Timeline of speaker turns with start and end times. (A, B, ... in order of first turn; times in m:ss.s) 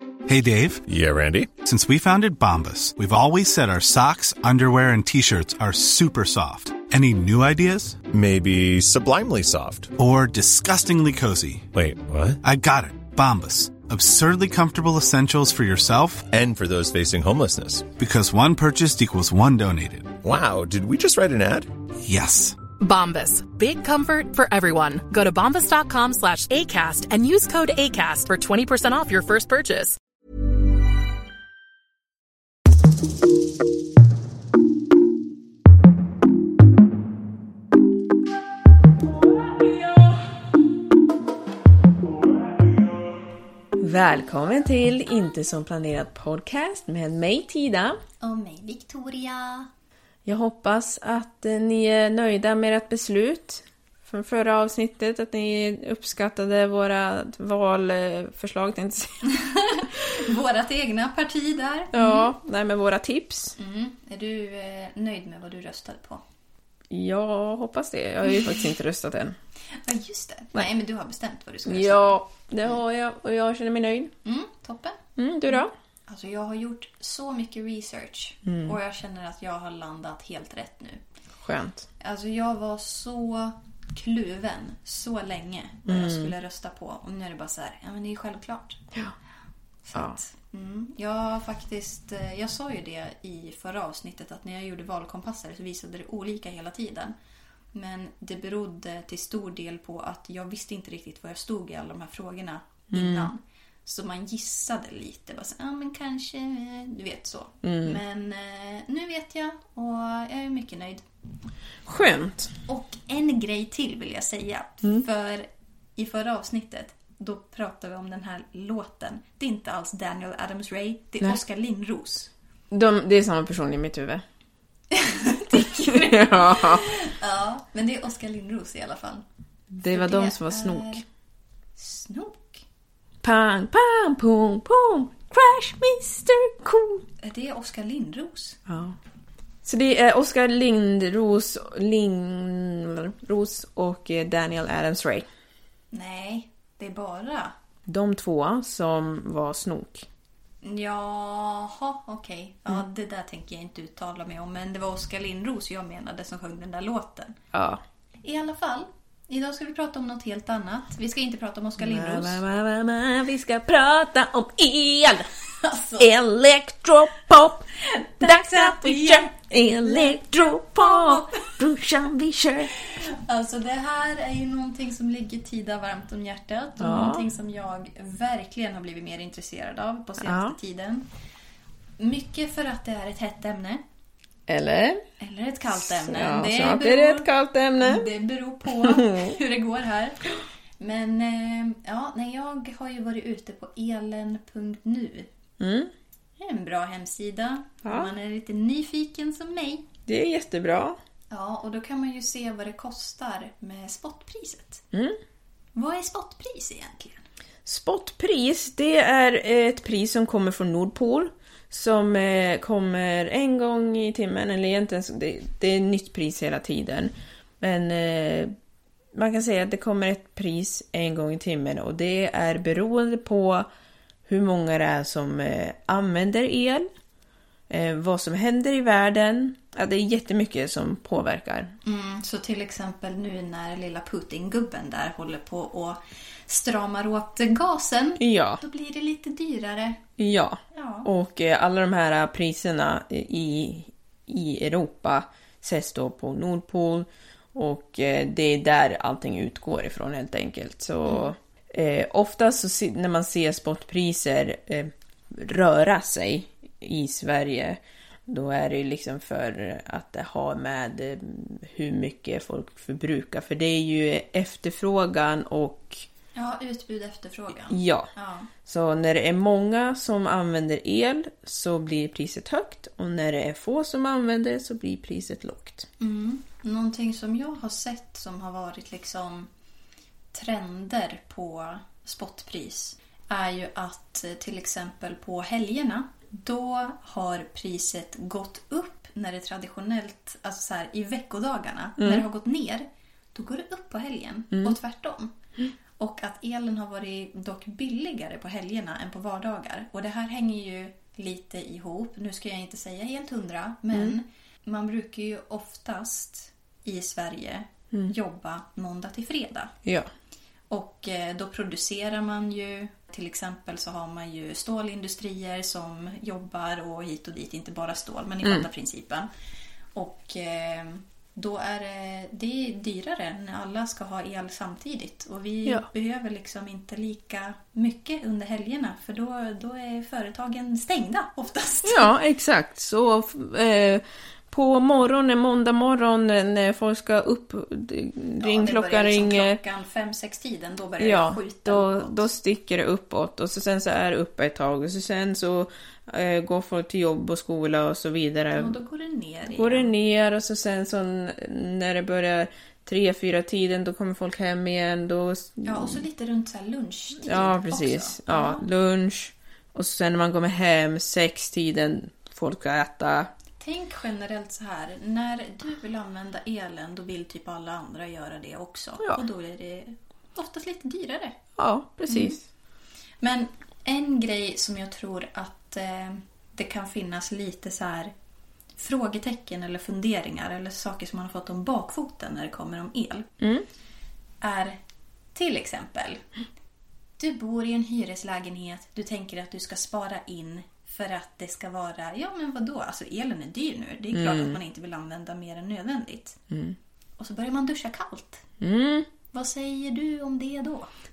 0:00.3-0:00.8 A
0:00.9-0:01.5 B
0:01.6-0:08.0 A
0:08.1-0:09.9 B
0:10.0-0:11.7 A
0:11.7-0:12.4 B
0:12.4-0:16.3 A
0:16.3-0:17.9 B
0:18.0-0:20.1 A
0:20.2-0:21.7 B
0:22.0-0:22.6 A
0:22.8-0:30.0 C
0:43.8-0:48.0 D
0:48.2-0:49.7 E
0:50.2-0:59.3 D
0:59.3-1:02.3 E
1:01.9-1:03.6 D
1:03.6-1:06.2 E
1:06.9-1:09.4 D
1:08.3-1:08.6 E
1:09.8-1:12.8 E
1:11.7-1:14.1 D
1:14.2-1:21.0 E
1:15.2-1:15.7 D
1:18.5-1:18.8 D
1:21.4-1:21.9 D
1:22.0-1:28.9 E
1:25.9-1:26.3 D
1:29.8-1:37.2 E
1:37.7-1:51.0 E
1:42.9-1:43.3 D
1:47.6-1:48.0 D
1:51.9-1:52.6 D
1:52.7-2:02.3 E
2:02.7-2:04.2 D
2:04.9-2:09.2 E
2:05.5-2:06.9 D
2:09.7-2:11.0 D
2:09.9-2:11.0 E
2:11.8-2:12.6 E
2:13.2-2:17.0 D
2:17.2-2:18.6 E
2:18.7-2:19.0 D
2:19.6-2:25.3 D
2:25.9-2:27.5 E
2:27.9-2:30.1 D
2:30.6-2:37.4 E
2:37.5-2:37.8 D
2:38.2-2:42.4 E
2:41.8-2:45.3 D
2:45.6-2:46.1 E
2:46.0-2:52.7 D
2:47.9-2:50.2 E
2:50.7-2:51.5 E
2:52.9-3:01.1 E
2:56.8-2:57.2 D
3:00.2-3:00.6 D
3:02.0-3:03.8 E
3:04.5-3:05.0 D
3:05.2-3:07.3 E
3:05.7-3:08.1 D
3:07.8-3:15.3 E
3:08.8-3:09.4 D
3:15.6-3:15.9 D
3:16.4-3:19.9 E
3:20.1-3:21.0 D
3:21.3-3:24.8 E
3:25.8-3:27.2 E
3:27.6-3:38.5 D
3:39.1-3:43.7 D
3:44.3-3:46.9 D
3:47.7-3:51.8 D
3:51.8-4:00.0 E
3:58.2-3:58.6 D
4:00.2-4:26.1 D
4:00.7-4:01.1 E
4:11.1-4:11.3 E
4:26.4-4:28.5 E
4:27.7-4:28.1 D
4:28.6-4:35.9 D
4:36.0-4:39.5 E
4:40.3-4:55.3 E
4:52.0-4:52.2 D
4:56.0-5:09.7 E
5:10.7-5:19.3 E
5:20.0-5:32.1 E
5:31.8-5:39.6 D
5:38.4-5:42.3 E
5:41.0-5:48.8 D
5:48.6-5:49.9 E
5:49.5-5:56.0 D
5:55.6-5:58.7 E
5:57.2-6:03.3 D
6:03.6-6:11.4 E
6:11.6-6:12.4 D
6:12.1-6:12.4 E
6:13.2-6:18.1 E
6:18.8-6:23.3 E
6:23.4-6:23.6 D
6:24.4-6:24.8 E
6:25.4-6:26.2 E
6:27.2-6:36.4 E
6:34.1-6:34.6 D
6:36.5-6:36.8 D
6:37.2-6:38.4 E
6:38.6-6:39.1 D
6:39.3-6:40.9 E